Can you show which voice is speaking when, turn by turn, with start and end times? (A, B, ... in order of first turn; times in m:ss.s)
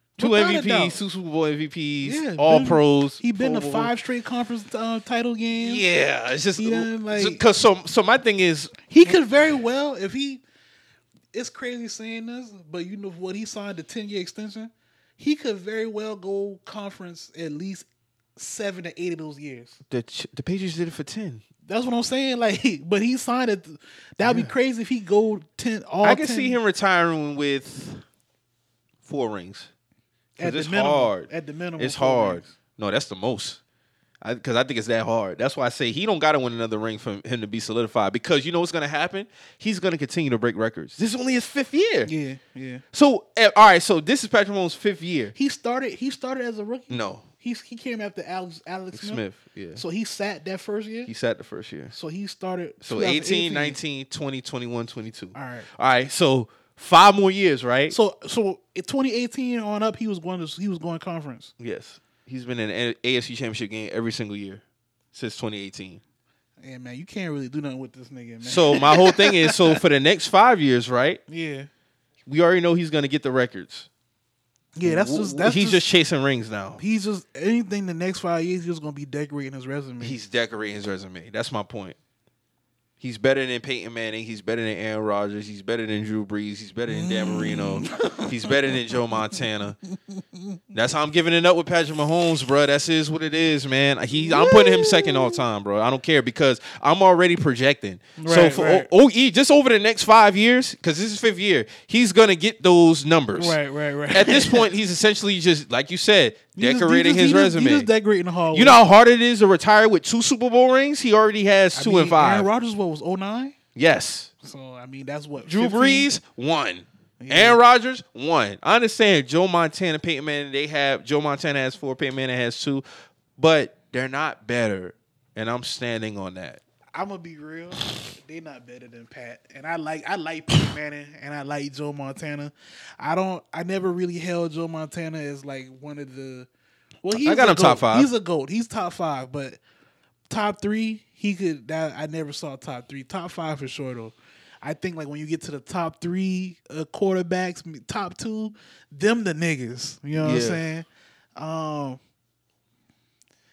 0:00.2-0:01.0 A
0:00.2-0:03.9 B
0:02.0-0:05.8 A
0:05.5-0:09.2 B
0:06.6-0:07.4 A
0:08.9-0:10.4 A
0:11.3-0:19.8 A
0:19.9-0:21.4 B
0:21.6-0:26.6 A
0:24.2-0:24.5 B
0:26.0-0:28.0 B
0:29.0-0:29.7 B
0:30.4-0:32.5 A
0:30.4-0:33.6 B
0:34.2-0:42.1 B
0:42.0-0:42.8 A
0:42.9-0:45.3 B
0:45.3-0:49.2 A
0:46.9-0:47.2 B
0:48.9-0:49.8 B
0:49.8-0:51.1 A
0:51.0-0:51.9 B
0:51.9-0:53.8 A
0:52.8-0:58.0 B
0:55.3-0:55.7 A
0:57.9-1:01.5 A
1:01.6-1:06.0 B
1:06.6-1:09.8 A
1:08.4-1:11.2 B
1:11.3-1:11.7 A
1:12.2-1:13.9 B
1:14.8-1:15.8 A
1:14.8-1:16.8 B
1:16.8-1:20.2 A
1:20.0-1:22.0 B
1:23.0-1:29.8 B
1:26.9-1:28.6 A
1:30.1-1:30.6 A
1:30.7-1:43.6 B
1:34.2-1:35.4 A
1:38.2-1:38.9 A
1:43.3-1:44.7 A
1:44.1-1:47.9 B
1:46.6-1:48.8 A
1:48.5-1:52.5 B
1:51.7-1:53.6 A
1:53.7-1:54.3 B
1:54.4-1:56.1 A
1:55.4-2:02.8 B
1:57.2-1:57.6 A
2:03.4-2:06.6 B
2:06.9-2:16.5 A
2:17.0-2:19.6 A
2:17.1-2:18.1 B
2:20.3-2:32.0 A
2:30.1-2:30.6 B